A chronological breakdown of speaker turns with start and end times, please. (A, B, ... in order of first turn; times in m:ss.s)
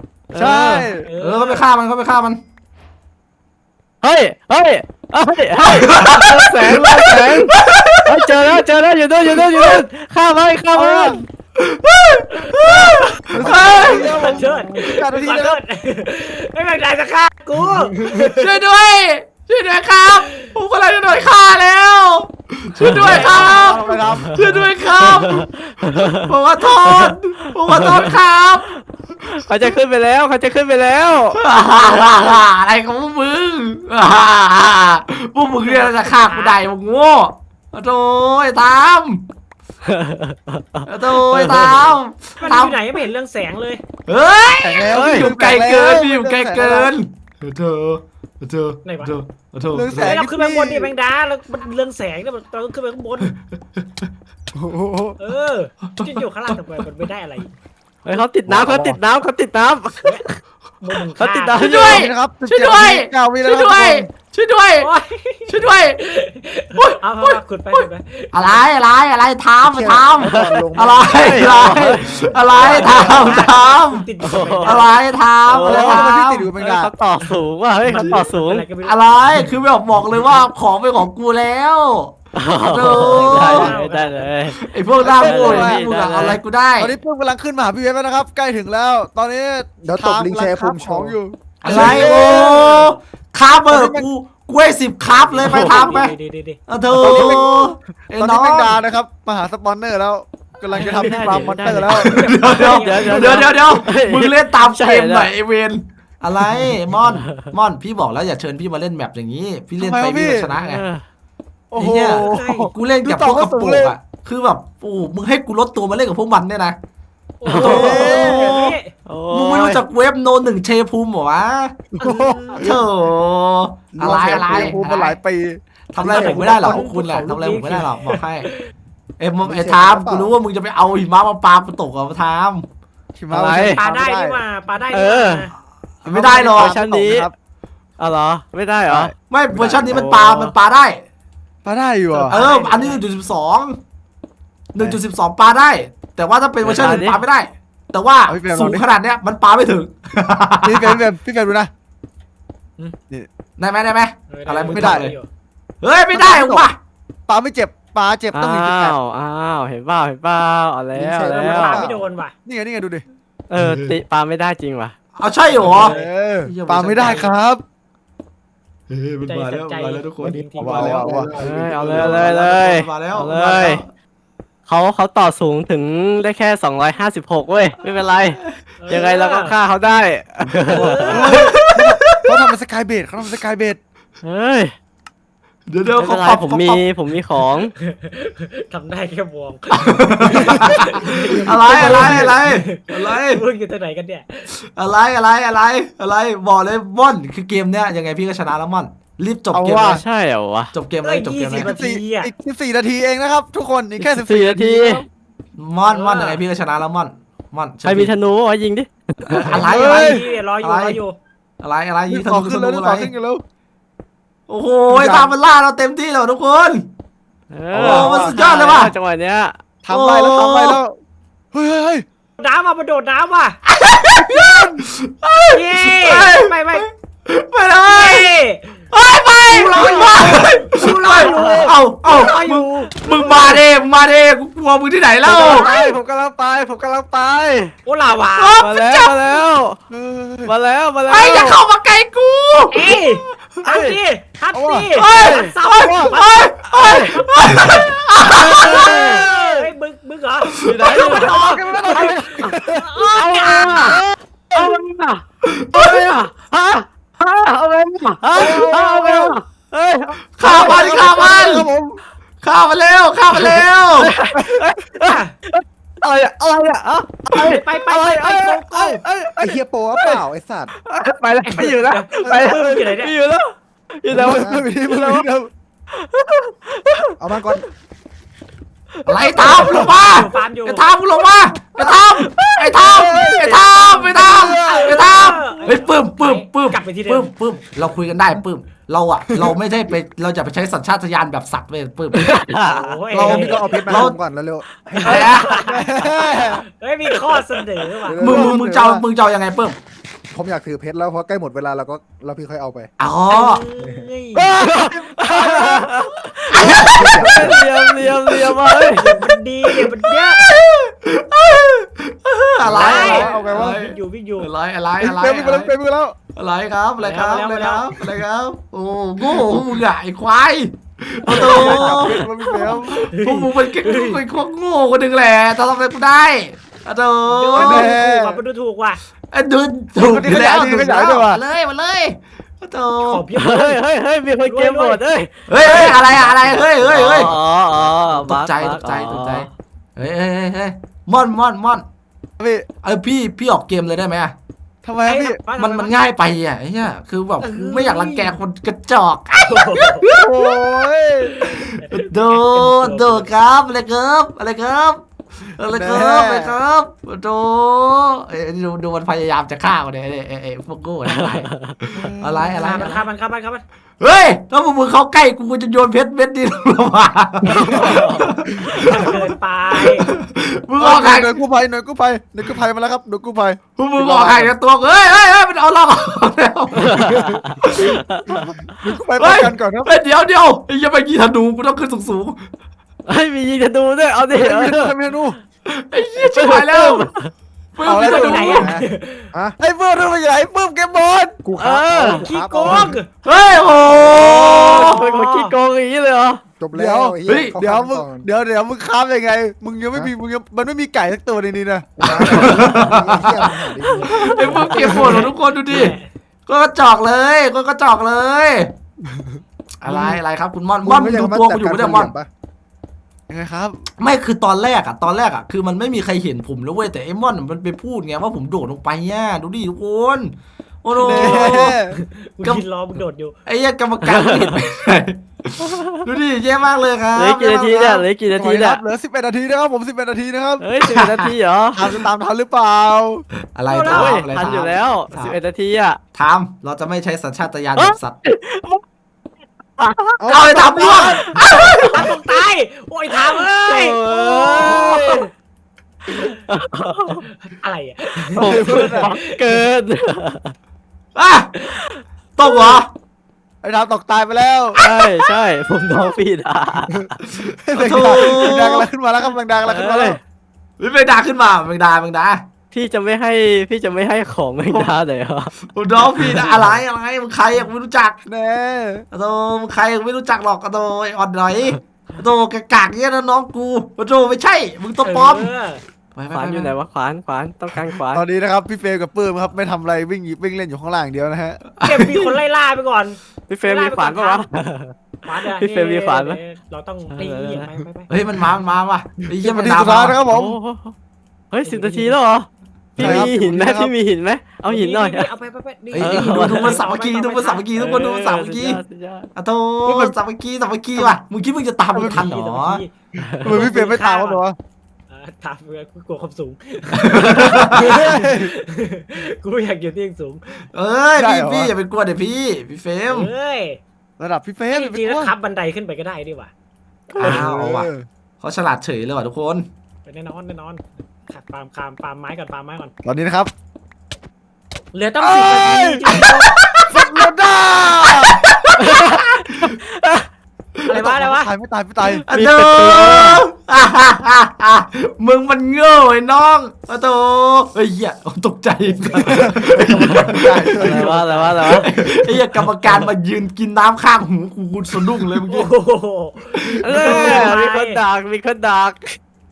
0:00.3-0:00.9 A
0:00.3-0:01.1 B
0:01.0-0:01.6 C
0:01.2-0:02.4 D
0:04.0-0:11.2 A
0:05.6-0:08.4 D
0:09.5-0:09.8 D
0:10.7-0:11.2 B
0:11.6-0:14.4 D
0:12.4-0:18.6 C
0:13.3-0:15.6 B
0:13.4-0:14.5 E
0:17.8-0:18.2 B
0:18.3-0:25.5 D
0:22.8-0:28.1 A
0:22.9-0:24.4 B
0:23.0-0:24.0 C
0:26.1-0:28.7 D
0:28.7-0:31.4 A
0:31.4-0:39.3 D
0:35.6-0:36.6 C
0:39.9-0:41.9 A
0:40.9-0:42.8 D
0:42.4-0:43.8 C
0:44.0-0:50.2 D
0:44.6-0:46.9 B
0:44.8-0:45.3 A
0:48.8-0:49.2 C
0:49.7-0:50.9 B
0:50.0-0:53.3 C
0:53.2-0:53.8 D
0:54.5-0:55.2 B
0:55.2-0:57.5 C
0:55.9-0:56.6 D
0:58.0-1:00.3 A
0:58.4-0:59.0 E
0:58.6-0:59.0 B
1:00.8-1:01.7 C
1:01.2-1:02.1 A
1:01.6-1:04.9 D
1:01.6-1:04.1 B
1:04.8-1:08.6 C
1:05.5-1:06.0 D
1:06.8-1:07.8 D
1:08.3-1:14.1 D
1:09.6-1:12.3 E
1:10.2-1:12.2 A
1:12.1-1:13.3 B
1:12.2-1:15.0 C
1:14.2-1:14.8 A
1:14.6-1:16.5 D
1:15.5-1:18.7 A
1:15.5-1:16.9 B
1:17.2-1:19.5 C
1:18.0-1:18.3 D
1:18.8-1:23.8 D
1:22.3-1:24.6 A
1:22.9-1:24.3 C
1:24.5-1:26.9 D
1:25.0-1:25.8 B
1:25.1-1:26.4 A
1:26.8-1:32.9 B
1:29.8-1:31.2 E
1:31.6-1:36.1 D
1:31.7-1:32.9 C
1:33.7-1:34.0 B
1:35.0-1:36.6 C
1:35.4-1:35.9 A
1:36.7-1:38.8 D
1:37.0-1:42.3 B
1:40.7-1:43.8 C
1:40.7-1:45.3 A
1:42.0-1:50.8 D
1:47.1-1:47.5 A
1:49.8-1:50.5 B
1:50.6-1:51.0 A
1:51.7-1:54.0 B
1:51.8-1:56.8 D
1:52.1-1:52.7 C
1:57.4-1:58.9 C
1:57.4-1:57.9 A
1:57.5-1:58.8 D
1:57.6-1:58.6 B
1:59.0-1:59.8 A
1:59.3-2:01.8 D
2:01.9-2:02.7 B
2:02.0-2:02.8 C
2:02.5-2:05.2 D
2:03.9-2:06.8 B
2:04.0-2:04.8 E
2:05.9-2:08.5 D
2:06.0-2:08.7 C
2:09.2-2:12.6 D
2:09.4-2:10.3 E
2:09.6-2:10.3 B
2:13.1-2:14.4 B
2:13.3-2:13.8 A
2:13.7-2:15.5 C
2:14.9-2:15.5 A
2:16.0-2:16.8 D
2:16.0-2:17.3 B
2:16.5-2:17.3 A
2:18.0-2:19.1 A
2:18.9-2:20.1 B
2:19.3-2:21.0 D
2:19.8-2:20.5 A
2:21.6-2:22.4 B
2:22.1-2:23.0 C
2:22.3-2:23.8 D
2:24.7-2:31.0 D
2:26.6-2:27.2 A
2:26.7-2:27.0 B
2:28.3-2:28.8 B
2:30.6-2:31.7 B
2:33.6-2:35.1 D
2:34.3-2:35.3 C
2:34.7-2:35.1 B
2:35.8-2:36.8 D
2:36.1-2:36.7 B
2:37.3-2:39.0 B
2:38.3-2:41.8 A
2:40.9-2:41.7 E
2:41.2-2:43.0 B
2:41.3-2:42.3 C
2:43.5-2:44.9 A
2:43.6-2:44.0 D
2:45.2-2:47.3 D
2:45.6-2:46.1 C
2:45.6-2:47.6 B
2:48.9-2:53.9 D
2:49.2-2:51.0 C
2:50.2-2:52.2 E
2:50.4-2:52.2 B
2:51.3-2:53.8 A
2:54.6-3:01.3 A
2:58.8-2:59.5 C
3:00.6-3:01.4 C
3:01.0-3:03.8 B
3:01.2-3:02.4 D
3:04.2-3:04.7 A
3:05.7-3:06.8 D
3:06.0-3:07.7 A
3:07.8-3:14.5 C
3:09.7-3:13.4 D
3:11.3-3:12.4 B
3:14.5-3:20.0 D
3:19.5-3:20.0 B
3:19.8-3:20.7 A
3:20.7-3:21.7 D
3:21.0-3:22.3 C
3:21.5-3:25.0 B
3:24.0-3:25.0 A
3:25.6-3:28.1 D
3:25.9-3:26.4 C
3:27.8-3:29.5 A
3:29.3-3:31.0 D
3:29.5-3:30.2 B
3:29.5-3:31.1 C
3:31.6-3:33.1 D
3:32.1-3:33.4 B
3:34.5-3:36.9 D
3:34.9-3:35.3 B
3:37.5-3:39.6 A
3:37.7-3:38.3 B
3:37.7-3:38.9 D
3:39.8-3:41.0 B
3:39.9-3:40.8 D
3:41.5-3:42.0 B
3:42.4-3:43.6 C
3:43.7-3:48.3 D
3:44.1-3:44.8 B
3:45.5-3:46.8 C
3:47.8-3:48.7 C
3:48.9-3:55.7 D
3:49.5-3:51.7 B
3:49.7-3:53.5 C
3:51.3-3:51.6 A
3:55.3-3:57.7 A
3:55.3-3:56.0 B
3:55.4-3:55.9 C
3:57.8-3:58.6 C
3:58.4-3:59.3 D
3:58.6-3:59.8 A
3:59.9-4:00.5 B
4:00.4-4:01.6 A
4:01.1-4:03.0 D
4:02.7-4:14.0 C
4:03.6-4:04.0 A
4:04.5-4:04.9 B
4:04.9-4:09.2 D
4:05.8-4:06.2 B
4:06.8-4:07.1 A
4:08.3-4:09.4 A
4:10.5-4:11.2 D
4:10.6-4:12.5 A
4:11.0-4:13.0 B
4:13.1-4:15.2 A
4:13.6-4:14.8 B
4:15.4-4:16.2 D
4:15.7-4:20.8 A
4:18.3-4:19.4 B
4:20.4-4:21.7 D
4:20.4-4:22.0 B
4:22.4-4:24.1 D
4:23.3-4:30.2 A
4:24.3-4:24.7 B
4:25.0-4:25.3 C
4:27.3-4:29.0 C
4:28.3-4:29.3 B
4:29.4-4:30.7 E
4:30.8-4:35.2 A
4:31.4-4:33.1 C
4:32.2-4:32.7 B
4:34.1-4:35.5 B
4:34.3-4:34.6 E
4:35.9-4:37.6 A
4:37.2-4:37.6 E
4:39.0-4:39.7 A
4:39.0-4:52.4 D
4:39.3-4:40.9 C
4:41.8-4:43.3 A
4:42.8-4:45.1 B
4:44.0-4:47.3 C
4:52.1-4:53.0 A
4:52.6-4:53.9 C
4:53.1-4:54.2 D
4:53.1-4:55.6 E
4:53.5-4:54.1 B
4:55.0-4:55.6 D
4:55.0-4:58.5 C
4:55.4-4:56.6 B
4:58.1-4:59.0 B
4:58.2-4:59.8 D
5:00.3-5:02.9 E
5:03.0-5:03.6 D
5:03.3-5:04.6 C
5:04.3-5:05.9 B
5:04.6-5:09.1 A
5:06.5-5:08.8 D
5:06.5-5:07.7 E
5:06.6-5:07.6 B
5:08.8-5:10.5 C
5:09.6-5:15.7 D
5:12.6-5:13.8 B
5:12.7-5:14.5 C
5:15.0-5:16.2 B
5:16.3-5:22.2 D
5:17.0-5:18.0 C
5:21.3-5:22.7 A
5:21.3-5:22.9 B
5:22.8-5:27.9 D
5:23.1-5:24.2 C
5:27.2-5:29.0 C
5:27.5-5:28.4 B
5:29.3-5:33.2 D
5:30.0-5:31.4 B
5:33.0-5:33.8 C
5:33.3-5:39.5 A
5:34.4-5:35.0 C
5:35.5-5:41.8 D
5:42.4-5:42.6 B
5:42.8-5:44.3 D
5:44.8-5:45.4 B
5:45.0-5:45.9 C
5:45.6-5:50.3 D
5:47.4-5:48.4 C
5:49.4-5:50.1 C
5:50.1-5:51.3 B
5:51.2-5:53.3 C
5:51.4-6:03.0 D
5:55.7-5:56.5 B
6:01.0-6:01.8 A
6:01.9-6:02.9 B
6:02.5-6:03.6 C
6:04.0-6:11.3 D
6:07.5-6:07.9 B
6:07.6-6:08.3 A
6:08.7-6:10.1 C
6:10.8-6:14.5 B
6:13.8-6:17.9 D
6:16.8-6:17.5 A
6:16.9-6:19.9 B
6:19.2-6:22.4 D
6:23.1-6:24.9 A
6:24.3-6:25.4 B
6:25.6-6:27.1 D
6:26.2-6:27.3 A
6:27.7-6:28.7 D
6:27.8-6:28.8 B
6:27.9-6:29.3 C
6:29.6-6:31.4 B
6:31.4-6:33.0 E
6:31.6-6:32.3 A
6:32.0-6:33.1 C
6:32.6-6:32.9 B
6:33.2-6:35.0 D
6:34.0-6:35.5 C
6:34.4-6:36.4 A
6:36.6-6:38.2 E
6:36.7-6:42.9 B
6:37.2-6:37.5 D
6:42.0-6:44.9 E
6:42.2-6:43.6 D
6:43.8-6:46.1 C
6:44.1-6:44.6 A
6:44.1-6:46.0 D
6:46.5-6:48.7 D
6:49.8-6:52.1 D
6:49.9-6:50.2 B
6:50.8-6:52.3 E
6:53.3-6:53.8 B
6:54.0-7:01.8 D
7:01.0-7:02.0 B
7:01.1-7:03.4 C
7:03.4-7:08.1 D
7:04.0-7:04.6 A
7:05.6-7:06.0 A
7:07.1-7:08.8 A
7:08.3-7:10.6 B
7:10.6-7:11.9 A
7:10.8-7:11.3 D
7:11.7-7:13.2 B
7:13.5-7:15.4 D
7:13.7-7:14.3 C
7:13.9-7:16.0 A
7:16.1-7:18.2 D
7:17.8-7:18.8 A
7:19.8-7:20.3 A
7:20.2-7:21.3 B
7:20.3-7:22.1 D
7:21.2-7:21.7 A
7:21.6-7:25.3 C
7:23.7-7:25.3 A
7:26.1-7:27.2 A
7:27.2-7:29.6 C
7:28.3-7:30.5 A
7:28.4-7:29.2 B
7:31.1-7:31.6 D
7:32.4-7:32.9 D
7:33.6-7:34.8 B
7:34.8-7:37.2 A
7:37.3-7:38.9 D
7:37.6-7:40.2 B
7:38.0-7:38.5 A
7:39.6-7:40.2 A
7:40.8-7:42.4 D
7:42.7-7:45.5 A
7:45.7-7:48.2 D
7:48.3-7:49.0 B
7:49.1-7:55.5 D
7:55.0-7:55.8 C
7:56.1-7:56.8 D
7:56.3-7:58.2 A
7:58.1-8:01.6 B
8:01.8-8:02.4 D
8:01.8-8:04.4 C
8:03.5-8:04.9 A
8:05.2-8:08.1 C
8:05.5-8:06.4 A
8:07.1-8:07.7 A
8:08.1-8:10.2 D
8:09.3-8:10.6 B
8:10.2-8:10.9 A
8:11.5-8:15.3 A
8:11.6-8:12.2 C
8:13.0-8:13.3 D
8:13.0-8:13.9 B
8:14.7-8:17.7 C
8:15.9-8:18.8 D
8:16.0-8:16.8 A
8:17.7-8:19.3 A
8:19.3-8:22.8 D
8:19.9-8:20.1 B
8:21.9-8:22.2 B
8:22.0-8:24.4 C
8:23.2-8:23.6 A
8:23.4-8:24.6 B
8:25.1-8:30.6 C
8:27.0-8:28.1 D
8:27.7-8:28.5 B
8:30.7-8:33.3 D
8:31.2-8:31.7 B
8:33.1-8:33.8 C
8:34.2-8:35.3 B
8:34.7-8:36.5 C
8:37.2-8:38.0 B
8:37.2-8:37.9 D
8:38.4-8:39.7 D
8:40.0-8:42.9 C
8:43.0-8:43.5 B
8:44.9-8:46.8 C
8:45.2-8:46.1 B
8:46.1-8:46.8 D
8:46.9-8:48.4 B
8:48.0-8:49.8 D
8:48.8-8:50.3 A
8:50.8-8:51.5 C
8:50.9-8:52.2 B
8:52.3-9:05.7 D
8:52.3-8:53.4 A
8:59.3-9:01.3 B
9:00.0-9:01.9 A
9:05.5-9:08.0 C
9:06.5-9:07.5 D
9:06.8-9:09.1 A